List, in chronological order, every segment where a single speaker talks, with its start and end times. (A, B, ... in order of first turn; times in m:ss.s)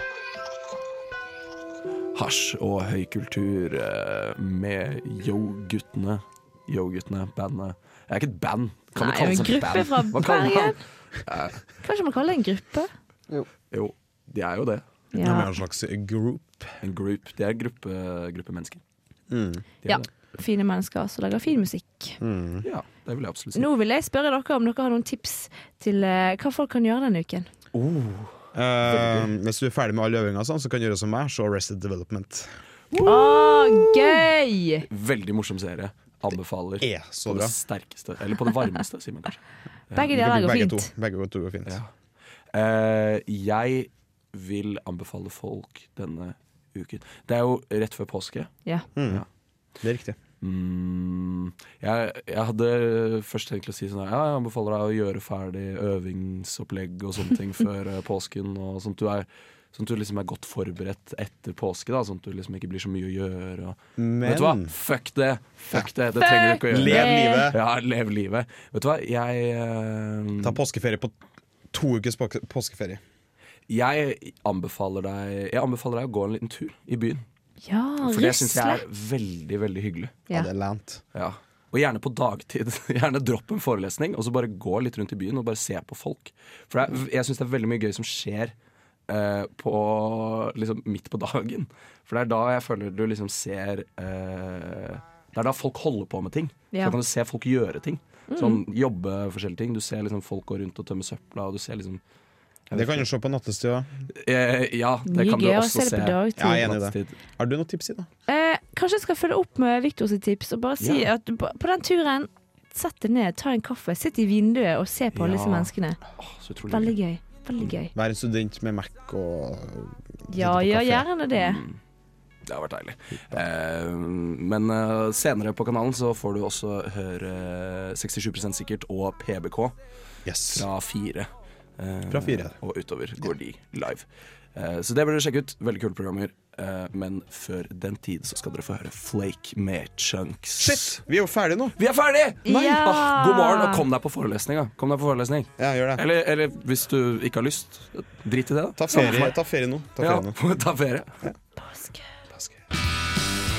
0:02.1-0:11.6 A
0:09.0-0:10.8 B
0:11.8-0:12.9 B
0:13.7-0:14.8 A
0:15.1-0:15.5 B
0:15.2-0:16.7 C
0:16.8-0:18.8 A
0:19.3-0:19.7 C
0:19.9-0:22.2 B
0:22.2-0:22.6 C
0:22.6-0:23.7 A
0:23.6-0:27.5 B
0:27.7-0:29.3 A
0:28.6-0:32.5 C
0:32.9-0:34.2 A
0:33.0-0:34.9 B
0:34.8-0:39.4 A
0:36.8-0:37.5 C
0:39.9-0:40.9 B
0:40.0-0:41.8 C
0:42.5-0:48.5 A
0:49.0-0:49.2 C
0:49.8-0:50.2 C
0:50.4-1:10.6 A
1:04.0-1:04.7 C
1:06.2-1:07.5 B
1:06.7-1:07.6 C
1:10.4-1:11.1 C
1:11.7-1:13.0 C
1:13.7-1:17.2 A
1:17.6-1:18.8 B
1:18.0-1:20.2 A
1:20.3-1:21.0 C
1:21.1-1:28.5 A
1:29.1-1:42.0 A
1:36.7-1:37.0 B
1:38.3-1:38.6 B
1:42.7-1:43.1 A
1:42.7-1:43.9 C
1:44.1-1:47.2 A
1:45.1-1:46.7 B
1:46.4-1:48.1 C
1:48.3-1:56.0 B
1:50.8-1:51.1 A
1:55.1-1:57.0 A
1:56.7-1:57.9 B
1:58.0-2:01.1 C
2:00.3-2:01.6 B
2:01.3-2:01.8 A
2:02.5-2:09.8 A
2:10.2-2:10.7 C
2:10.5-2:21.0 A
2:12.1-2:12.5 C
2:20.6-2:21.8 C
2:21.8-2:29.4 A
2:22.4-2:23.9 B
2:25.6-2:26.0 C
2:28.8-2:30.4 C
2:30.0-2:31.1 A
2:31.6-2:32.0 B